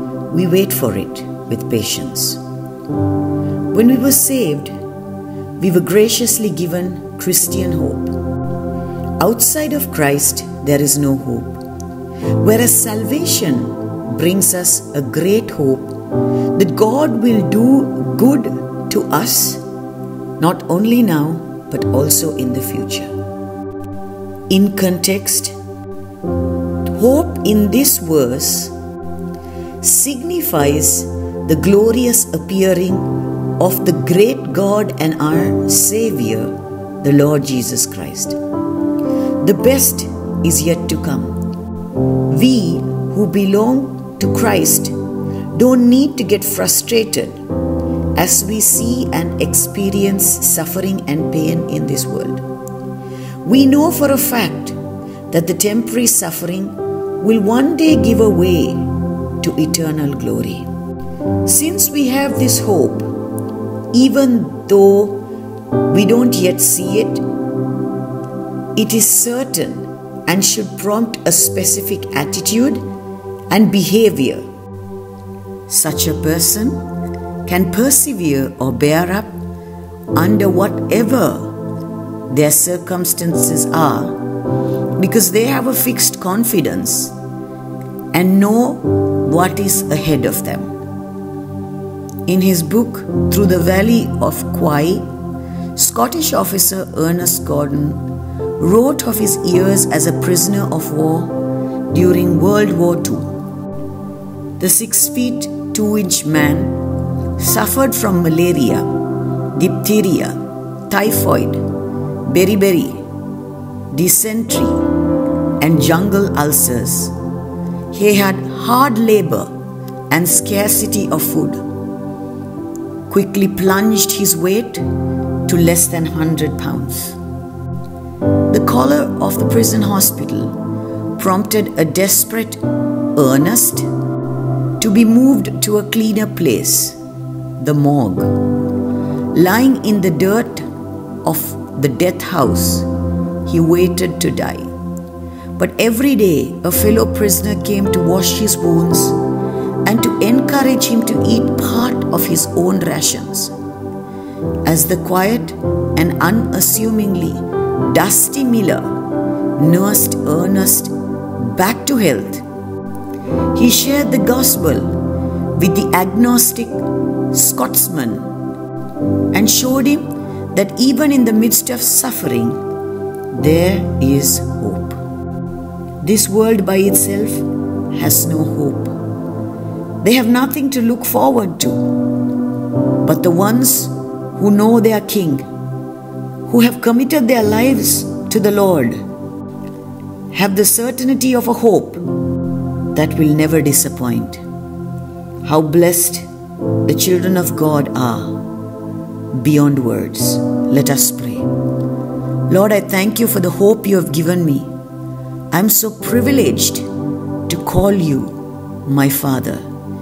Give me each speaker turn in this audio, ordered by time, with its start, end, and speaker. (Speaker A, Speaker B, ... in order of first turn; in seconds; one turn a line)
Speaker A: 0.3-2.4
Speaker A: 3.7-4.8
Speaker A: 5.6-8.2
Speaker A: 9.2-11.6
Speaker A: 12.4-19.6
Speaker A: 20.4-23.1
Speaker A: 24.5-25.6
Speaker A: 26.8-28.7
Speaker A: 29.8-38.4
Speaker A: 39.4-41.4
Speaker A: 42.2-45.0
Speaker A: 45.5-47.4
Speaker A: 48.1-52.5
Speaker A: 53.4-54.8
Speaker A: 55.3-60.7
Speaker A: 61.4-63.1
Speaker A: 63.9-65.3
Speaker A: 65.8-67.3
Speaker A: 68.8-72.9
Speaker A: 73.5-74.5
Speaker A: 75.7-76.9
Speaker A: 77.5-79.4
Speaker A: 80.1-81.6
Speaker A: 82.3-84.2
Speaker A: 85.0-87.2
Speaker A: 88.1-90.7
Speaker A: 92.3-95.1
Speaker A: 95.8-103.3
Speaker A: 104.6-111.7
Speaker A: 112.2-113.0
Speaker A: 113.9-114.9
Speaker A: 115.6-117.2
Speaker A: 117.9-119.5
Speaker A: 120.1-121.7
Speaker A: 123.1-124.9
Speaker A: 125.5-127.2
Speaker A: 128.5-130.6
Speaker A: 131.2-133.9
Speaker A: 134.8-137.0
Speaker A: 137.6-138.5
Speaker A: 139.3-140.7
Speaker A: 141.2-142.9
Speaker A: 143.4-144.7
Speaker A: 145.6-149.2
Speaker A: 149.8-153.6
Speaker A: 154.7-162.4
Speaker A: 163.5-165.0
Speaker A: 165.5-168.3
Speaker A: 169.3-172.6
Speaker A: 173.3-175.0
Speaker A: 176.0-179.0
Speaker A: 180.0-182.0
Speaker A: 183.0-185.5
Speaker A: 186.5-189.0
Speaker A: 190.3-192.1
Speaker A: 192.9-194.4
Speaker A: 195.4-198.5
Speaker A: 199.3-201.5
Speaker A: 202.5-204.7
Speaker A: 205.5-206.9
Speaker A: 207.5-209.6